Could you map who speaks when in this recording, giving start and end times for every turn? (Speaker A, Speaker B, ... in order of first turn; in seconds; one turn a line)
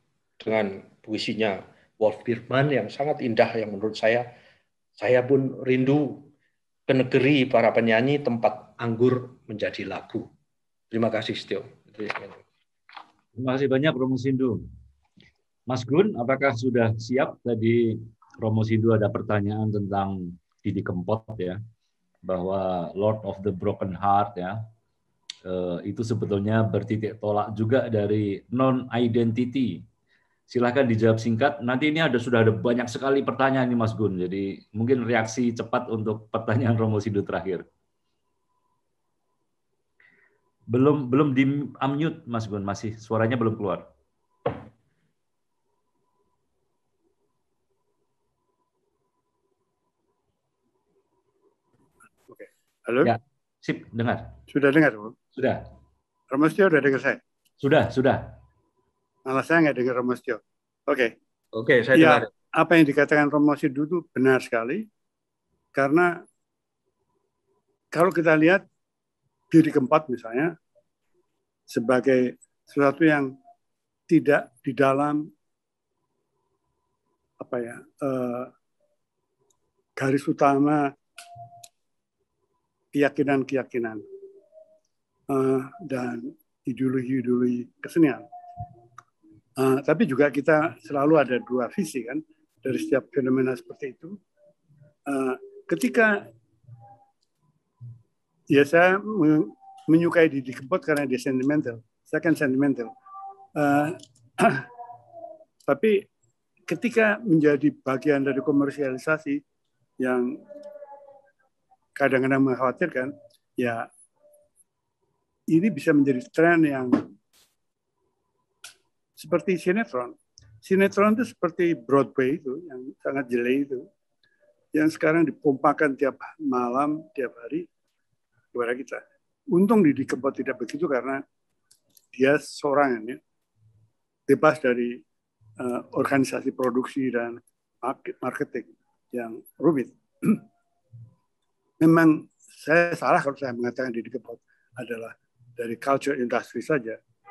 Speaker A: 0.4-4.2
Speaker A: 5.0-6.2
Speaker A: 6.9-10.3
Speaker A: 10.9-12.4
Speaker B: 13.4-14.6
Speaker B: 15.7-21.6
Speaker B: 22.2-24.6
Speaker B: 25.4-29.8
Speaker B: 30.5-37.6
Speaker B: 40.7-43.9
Speaker C: 52.3-53.1
Speaker B: 53.0-54.3
Speaker C: 54.5-55.2
Speaker B: 55.4-55.6
Speaker C: 56.3-57.2
Speaker B: 57.6-58.2
Speaker C: 59.3-61.1
Speaker A: 61.5-62.3
Speaker C: 62.0-64.8
Speaker C: 65.8-66.2
Speaker C: 67.9-68.6
Speaker C: 69.5-70.5
Speaker C: 71.7-73.3
Speaker C: 74.1-75.3
Speaker C: 77.4-78.5
Speaker C: 80.0-80.9
Speaker C: 82.9-84.0
Speaker C: 85.3-88.3
Speaker C: 89.6-94.2
Speaker C: 95.1-96.2
Speaker C: 98.5-102.9
Speaker C: 103.5-104.7
Speaker C: 105.7-106.0
Speaker C: 106.7-109.4
Speaker C: 110.0-110.4
Speaker C: 112.0-113.9
Speaker C: 115.5-117.1
Speaker C: 119.2-123.8
Speaker C: 124.7-127.7
Speaker C: 128.5-131.2
Speaker C: 132.1-133.2
Speaker C: 134.3-135.0
Speaker C: 135.6-140.4
Speaker C: 141.8-147.0